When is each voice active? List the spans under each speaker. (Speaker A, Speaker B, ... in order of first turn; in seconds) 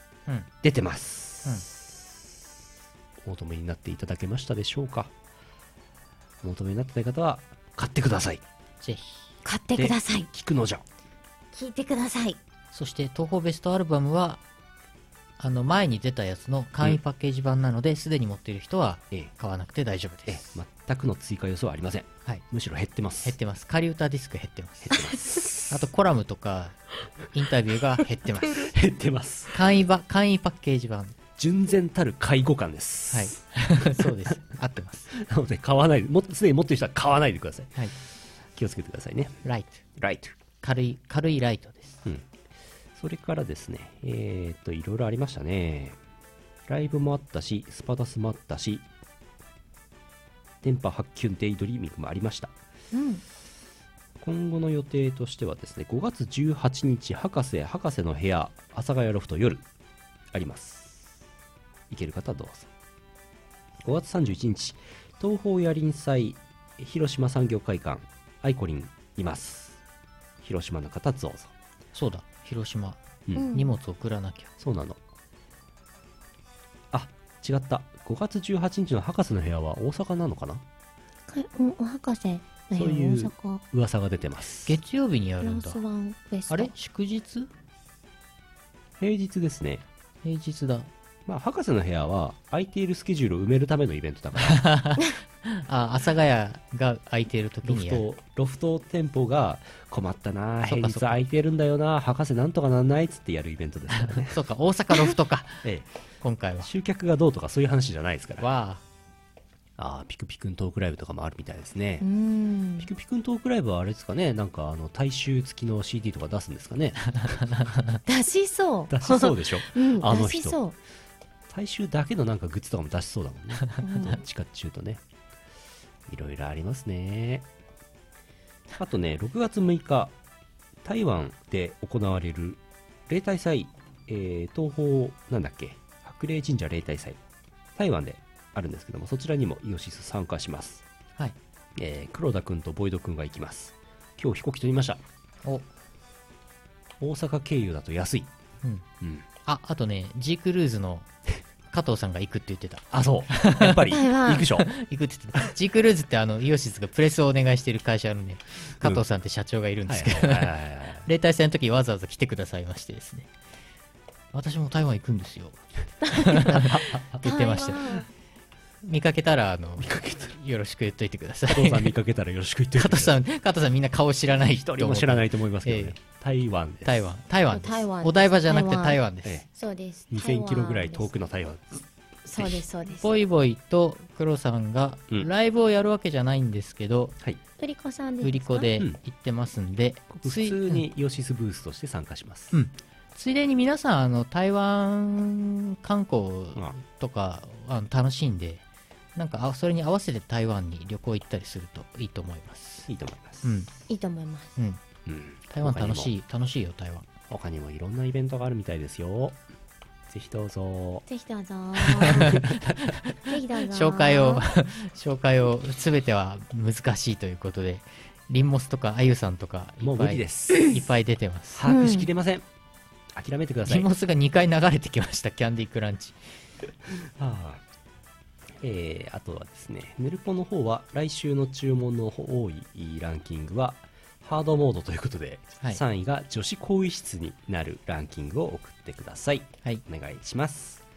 Speaker A: 0.6-1.9, 3.2-5.1, 6.4-8.4, 9.8-10.8, 20.3-23.4, 24.9-25.7, 28.7-29.5, 31.4-34.1, 35.1-37.8, 38.5-39.4, 40.0-40.3, 43.0-46.0, 46.7-48.9, 50.6-52.5, 54.2-59.6, 60.3-61.1, 61.9-62.7, 63.8-69.8, 70.4-71.5, 74.6-75.0, 76.9-80.6, 82.7-84.8, 89.0-89.8, 91.2-94.6, 97.6-104.3, 106.6-108.5, 109.8-112.0, 112.8-117.5, 118.9-120.6, 121.5-125.0, 126.1-127.5, 128.8-130.1, 130.8-137.2, 137.8-140.8, 141.8-145.0, 147.0-148.3, 152.9-154.7, 159.9-161.1, 166.3-167.1, 169.8-170.3, 171.5-173.2, 174.6-177.1, 180.1-181.8, 190.1-192.5, 202.9-203.6, 205.1-206.1, 207.3-209.4, 210.1-211.1, 211.8-213.1, 219.8-220.8, 221.5-222.4, 223.1-223.9, 227.2-227.6, 228.6-240.8
Speaker B: 8.8-9.3, 12.7-14.4, 15.4-20.5, 23.2-25.0, 25.6-28.7, 29.5-31.1, 33.1-35.1, 39.4-39.8, 40.6-42.0, 71.9-74.5, 84.6-85.8, 86.5-87.5, 90.2-90.9, 94.4-98.0, 100.7-101.2, 104.0-105.6, 106.2-106.7, 108.4-108.8, 149.4-151.1, 151.7-153.8, 154.6-160.5, 161.0-163.3, 164.3-168.1, 168.8-171.9, 172.8-176.0, 176.8-179.4, 183.0-187.2, 188.2-190.8, 192.5-198.6, 199.2-202.9, 203.4-203.7, 205.5-207.1, 213.7-221.6, 223.7-226.2
Speaker C: 9.4-10.3, 11.5-12.4, 24.9-25.4, 52.9-53.2, 73.3-73.7, 81.3-83.6, 85.4-86.7, 112.0-112.9, 118.0-120.8, 123.8-124.2, 153.9-154.5, 166.0-166.6, 167.2-168.1, 177.5-181.1, 182.2-183.2, 187.6-188.7, 203.9-204.6, 211.1-212.5, 213.2-214.4, 221.6-222.1